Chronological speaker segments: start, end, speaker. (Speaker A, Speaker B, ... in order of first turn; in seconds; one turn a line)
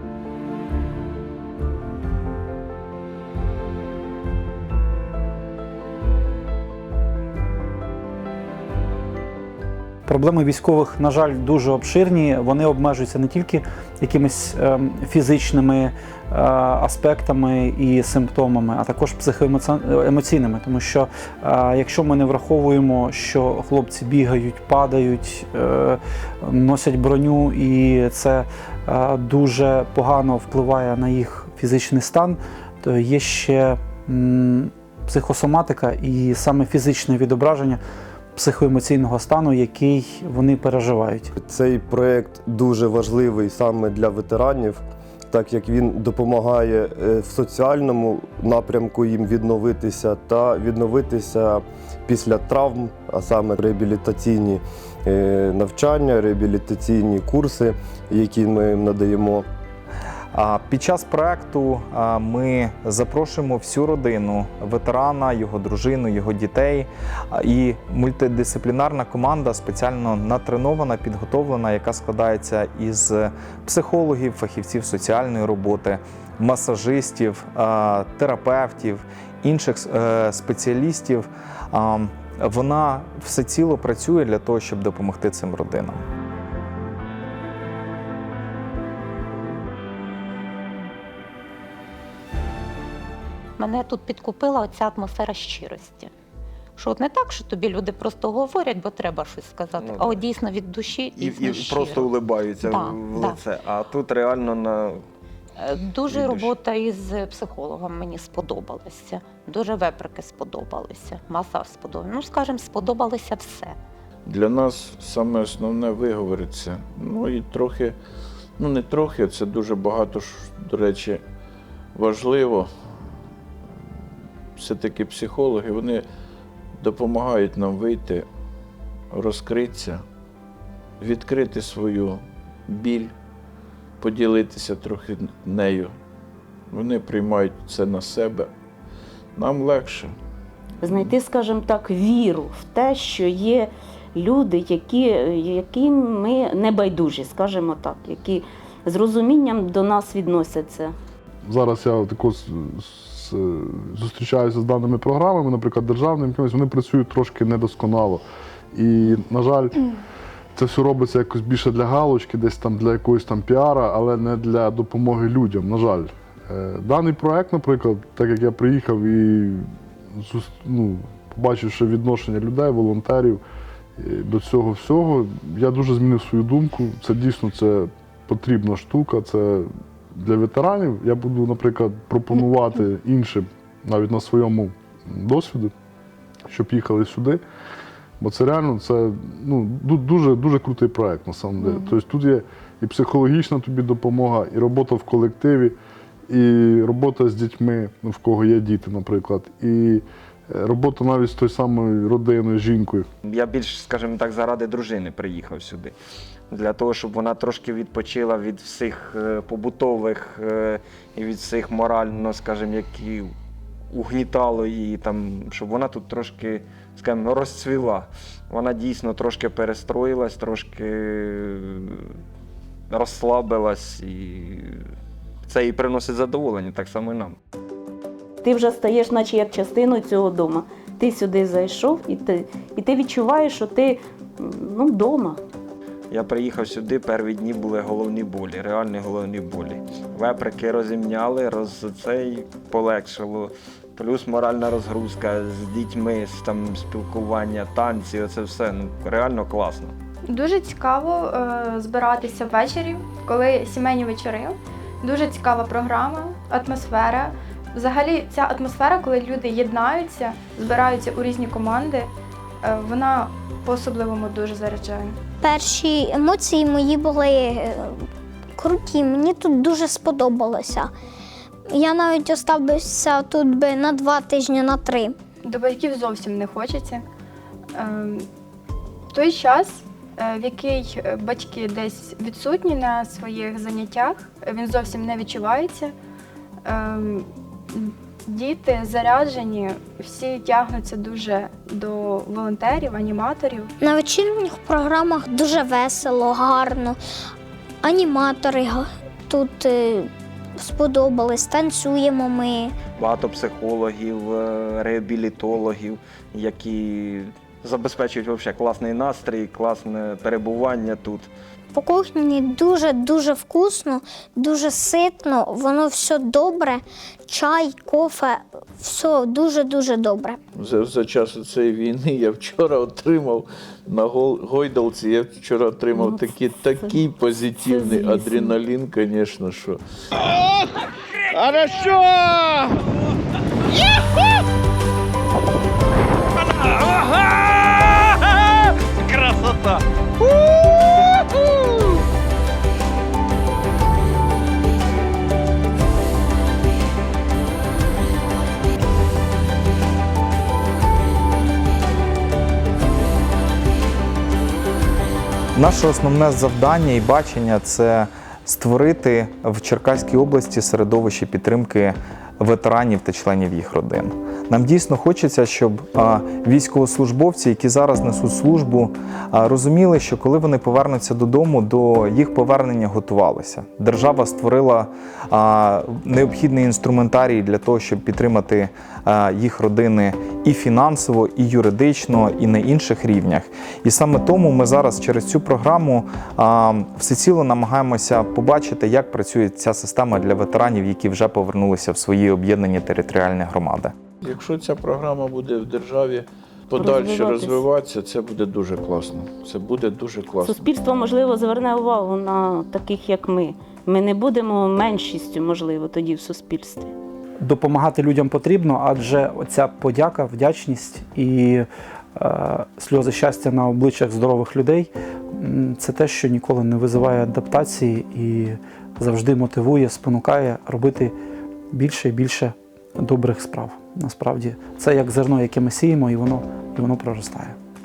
Speaker A: 10.1-37.8
Speaker A: 38.4-41.3
Speaker B: 41.4-59.5
Speaker C: 60.3-86.0
Speaker D: 93.6-96.1
Speaker D: 96.8-103.4
Speaker E: 99.8-100.2
Speaker E: 101.2-105.0
Speaker D: 105.6-113.8
Speaker E: 106.1-106.5
Speaker F: 114.2-118.0
Speaker F: 118.6-121.2
Speaker F: 121.9-122.7
Speaker F: 124.6-126.0
Speaker F: 126.8-128.3
Speaker F: 129.1-130.0
Speaker F: 131.0-133.1
Speaker F: 134.0-135.9
Speaker F: 136.7-138.5
Speaker F: 139.3-140.1
Speaker G: 140.8-150.9
Speaker H: 151.4-159.8
Speaker H: 160.6-173.4
Speaker H: 174.0-185.7
Speaker H: 186.5-187.4
Speaker H: 188.2-195.8
Speaker H: 196.3-203.1
Speaker E: 203.2-205.9
Speaker E: 206.5-213.3
Speaker E: 213.9-222.1
Speaker E: 222.9-224.8
Speaker E: 225.5-227.4
Speaker G: 228.4-235.4
Speaker E: 236.1-249.9
Speaker I: 250.3-262.1
Speaker I: 262.6-265.1
Speaker J: 265.4-267.9
Speaker J: 268.6-270.9
Speaker J: 271.7-275.1
Speaker I: 275.4-277.1
Speaker I: 277.8-278.2
Speaker I: 279.1-285.9
Speaker I: 286.6-293.7
Speaker J: 293.8-297.0
Speaker J: 297.8-302.7
Speaker E: 302.9-311.3
Speaker J: 311.7-320.4
Speaker F: 320.6-329.8
Speaker G: 325.9-327.0
Speaker G: 327.5-328.6
Speaker F: 331.2-332.7
Speaker F: 336.5-341.3
Speaker C: 355.6-393.9
Speaker F: 394.2-400.6
Speaker G: 396.7-397.7
Speaker G: 400.4-406.9
Speaker A: 407.4-421.1
Speaker A: 421.7-427.6